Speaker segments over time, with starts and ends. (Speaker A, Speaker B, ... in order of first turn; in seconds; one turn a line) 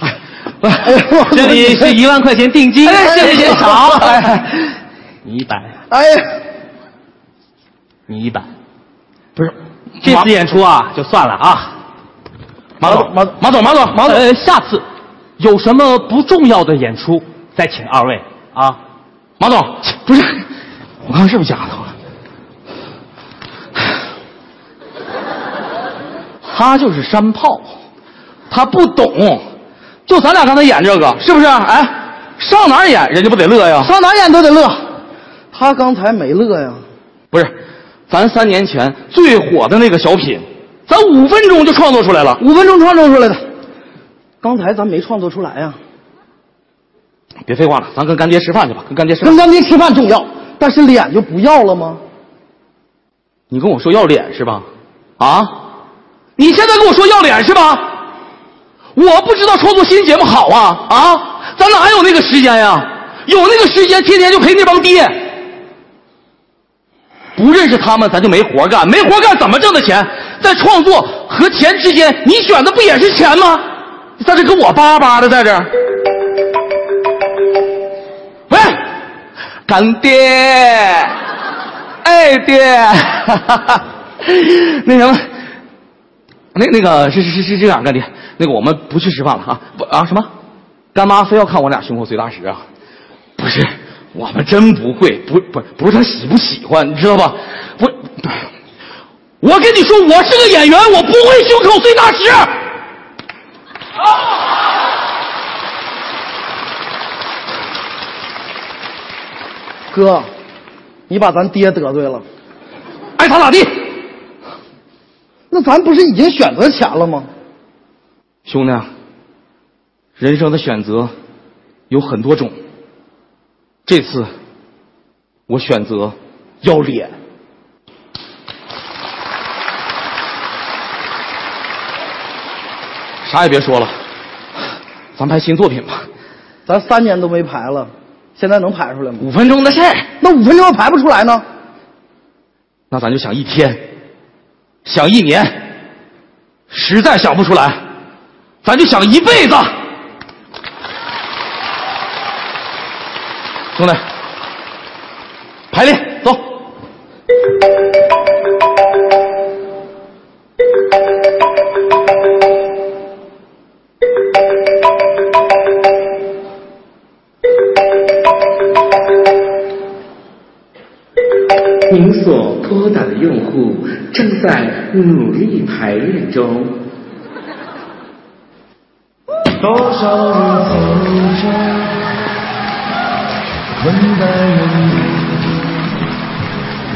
Speaker A: 0.8-1.9
Speaker B: 1.0-4.2
Speaker C: 2.9-4.5
Speaker A: 3.0-4.3
Speaker B: 5.2-5.7
Speaker A: 5.9-6.3
Speaker B: 8.1-8.5
Speaker C: 9.4-10.3
Speaker B: 10.0-11.7
Speaker C: 12.8-14.1
Speaker A: 12.8-13.4
Speaker A: 13.9-14.2
Speaker B: 14.1-14.8
Speaker B: 15.4-18.8
Speaker C: 19.4-20.4
Speaker C: 21.1-21.9
Speaker C: 26.4-27.7
Speaker C: 28.5-29.4
Speaker C: 30.1-33.9
Speaker A: 33.8-34.8
Speaker A: 35.5-36.8
Speaker C: 38.1-42.4
Speaker A: 42.4-43.4
Speaker A: 44.4-45.8
Speaker C: 47.5-49.4
Speaker A: 49.2-52.0
Speaker C: 53.5-54.7
Speaker C: 55.2-55.6
Speaker C: 56.4-57.9
Speaker C: 59.0-65.2
Speaker C: 67.4-73.7
Speaker C: 74.2-75.7
Speaker C: 78.5-78.8
Speaker C: 79.7-81.2
Speaker C: 82.0-85.2
Speaker C: 86.5-90.3
Speaker C: 90.9-92.6
Speaker C: 93.4-98.5
Speaker C: 99.4-102.5
Speaker A: 109.9-110.3
Speaker A: 111.1-112.2
Speaker C: 113.2-113.8
Speaker A: 115.5-117.3
Speaker C: 118.5-118.9
Speaker C: 120.2-121.1
Speaker C: 121.9-122.5
Speaker C: 123.9-124.3
Speaker C: 125.5-127.1
Speaker C: 133.2-133.9
Speaker C: 135.2-136.1
Speaker A: 136.7-139.3
Speaker C: 139.2-140.1
Speaker A: 140.2-141.4
Speaker C: 142.9-143.8
Speaker C: 144.8-145.6
Speaker C: 146.7-147.8
Speaker C: 148.6-149.7
Speaker C: 153.8-154.0
Speaker C: 155.7-156.4
Speaker D: 171.9-176.8
Speaker E: 179.7-181.9
Speaker E: 183.8-185.3